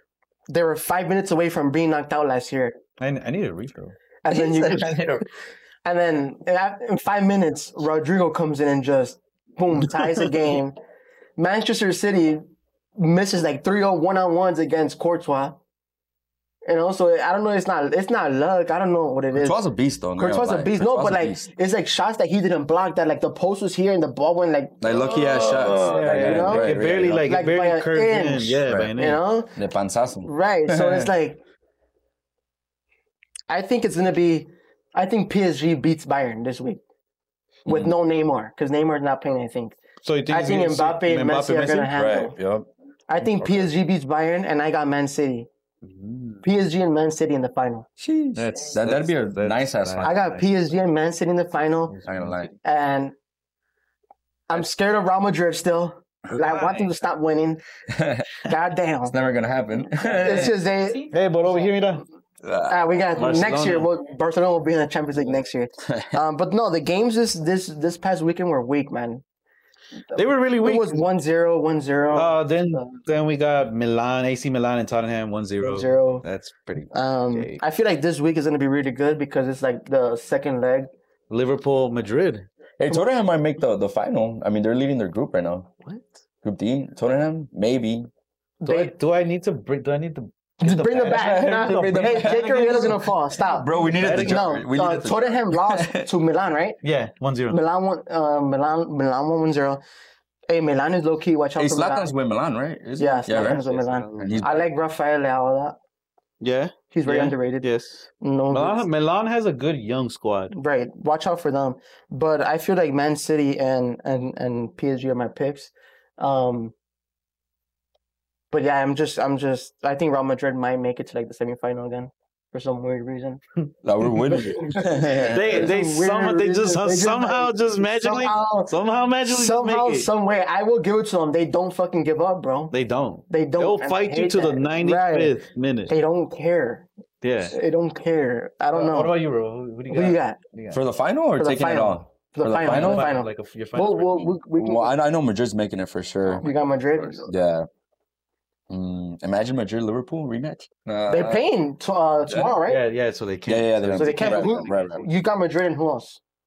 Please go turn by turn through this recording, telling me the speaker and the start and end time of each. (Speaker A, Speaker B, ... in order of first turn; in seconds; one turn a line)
Speaker A: 0.5-2.8
Speaker B: 3.0-4.0
Speaker A: 4.2-5.0
Speaker C: 4.3-5.2
Speaker A: 5.8-10.8
Speaker A: 11.4-12.4
Speaker A: 12.9-15.6
Speaker A: 16.6-19.6
Speaker C: 19.3-21.5
Speaker A: 20.1-24.8
Speaker C: 24.8-27.2
Speaker B: 24.9-29.2
Speaker A: 26.0-29.6
Speaker C: 28.7-28.9
Speaker C: 29.6-31.1
Speaker A: 30.2-31.4
Speaker A: 33.5-36.8
Speaker A: 37.6-39.8
Speaker C: 37.7-37.9
Speaker B: 40.0-41.9
Speaker A: 40.3-42.4
Speaker C: 41.9-42.7
Speaker A: 43.1-45.5
Speaker B: 43.4-43.6
Speaker B: 45.8-46.5
Speaker A: 46.4-47.9
Speaker C: 48.0-50.1
Speaker B: 48.3-50.5
Speaker A: 50.0-51.9
Speaker B: 51.9-52.5
Speaker C: 52.0-52.5
Speaker A: 52.6-53.1
Speaker A: 54.5-57.6
Speaker B: 56.4-56.9
Speaker C: 57.9-58.2
Speaker A: 58.5-59.1
Speaker C: 59.0-60.5
Speaker A: 60.1-61.1
Speaker B: 60.2-60.5
Speaker B: 61.1-62.0
Speaker C: 62.4-62.8
Speaker A: 62.7-69.2
Speaker B: 63.1-63.9
Speaker C: 65.9-66.2
Speaker A: 70.1-72.9
Speaker B: 70.1-71.0
Speaker B: 72.1-77.6
Speaker A: 75.6-76.2
Speaker A: 76.9-80.9
Speaker B: 81.3-82.5
Speaker C: 82.8-85.7
Speaker B: 85.8-86.2
Speaker C: 86.4-88.1
Speaker A: 88.6-88.9
Speaker B: 88.6-93.0
Speaker A: 90.6-96.8
Speaker C: 91.1-96.1
Speaker B: 93.9-94.9
Speaker B: 96.8-97.6
Speaker A: 97.5-99.8
Speaker A: 100.5-102.1
Speaker C: 101.5-103.6
Speaker A: 103.0-105.8
Speaker B: 103.3-104.6
Speaker C: 104.2-104.5
Speaker B: 106.4-110.5
Speaker A: 106.9-107.7
Speaker A: 108.2-108.8
Speaker A: 110.5-116.7
Speaker A: 118.5-123.4
Speaker C: 123.8-125.7
Speaker A: 124.3-132.7
Speaker B: 125.3-130.1
Speaker B: 132.7-135.9
Speaker A: 133.3-135.4
Speaker A: 135.9-136.9
Speaker B: 137.2-137.6
Speaker A: 137.5-139.2
Speaker B: 138.7-140.8
Speaker A: 139.9-140.4
Speaker C: 140.7-143.1
Speaker A: 141.4-144.9
Speaker B: 142.6-144.3
Speaker C: 144.4-146.5
Speaker A: 146.4-147.3
Speaker C: 147.2-147.7
Speaker C: 148.7-151.4
Speaker A: 151.1-152.8
Speaker C: 152.3-152.5
Speaker B: 152.6-154.7
Speaker C: 153.5-155.0
Speaker A: 153.9-156.2